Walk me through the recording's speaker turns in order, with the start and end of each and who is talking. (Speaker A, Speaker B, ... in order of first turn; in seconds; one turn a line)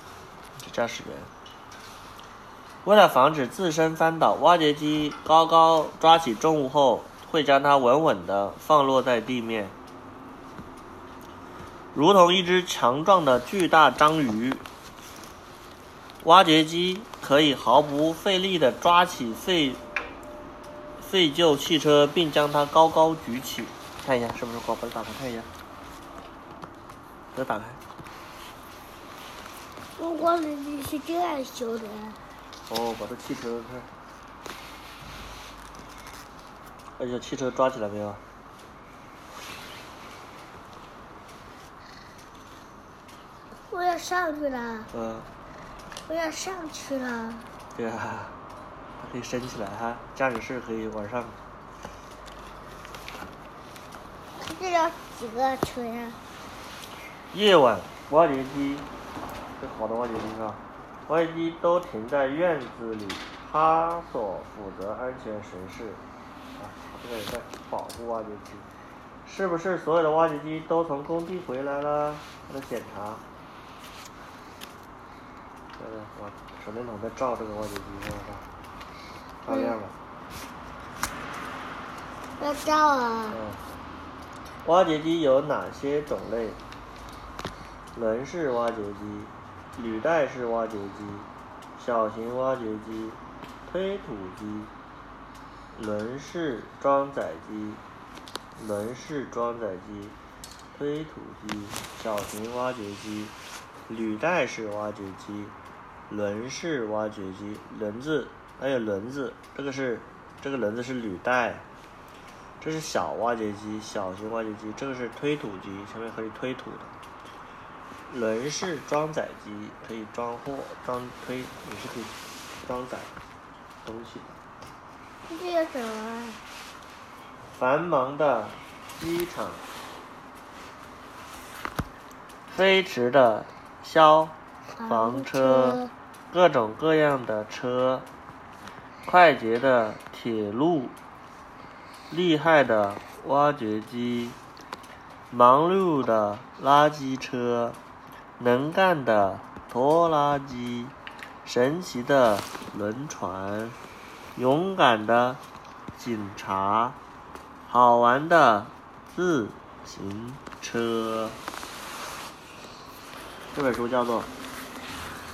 Speaker A: 0.6-1.3
Speaker A: 2.8-9.7
Speaker A: 11.9-14.6
Speaker A: 16.2-19.8
Speaker A: 21.0-25.5
Speaker A: 27.3-27.8
Speaker B: 30.0-32.2
Speaker A: 32.7-33.9
Speaker A: 37.0-38.2
Speaker B: 43.7-44.9
Speaker A: 44.9-45.3
Speaker B: 46.0-47.5
Speaker A: 47.7-48.3
Speaker A: 49.0-51.4
Speaker B: 54.4-56.2
Speaker A: 57.3-58.9
Speaker A: 59.6-66.0
Speaker A: 66.5-68.7
Speaker A: 69.2-73.2
Speaker A: 75.8-78.5
Speaker A: 79.4-80.0
Speaker B: 79.5-79.8
Speaker B: 82.4-83.4
Speaker A: 83.3-83.6
Speaker A: 84.6-86.6
Speaker A: 87.9-94.7
Speaker A: 95.7-97.8
Speaker A: 98.6-100.2
Speaker A: 100.7-103.3
Speaker A: 103.9-105.5
Speaker A: 106.1-111.7
Speaker A: 112.6-116.9
Speaker A: 118.1-123.1
Speaker A: 123.8-124.4
Speaker B: 125.3-126.4
Speaker A: 127.5-129.6
Speaker A: 132.5-138.1
Speaker B: 134.8-135.9
Speaker A: 139.0-140.9
Speaker A: 142.1-144.4
Speaker A: 145.3-147.8
Speaker A: 148.4-153.8
Speaker A: 154.3-155.4
Speaker A: 155.9-157.0
Speaker A: 157.7-161.4
Speaker A: 163.5-164.3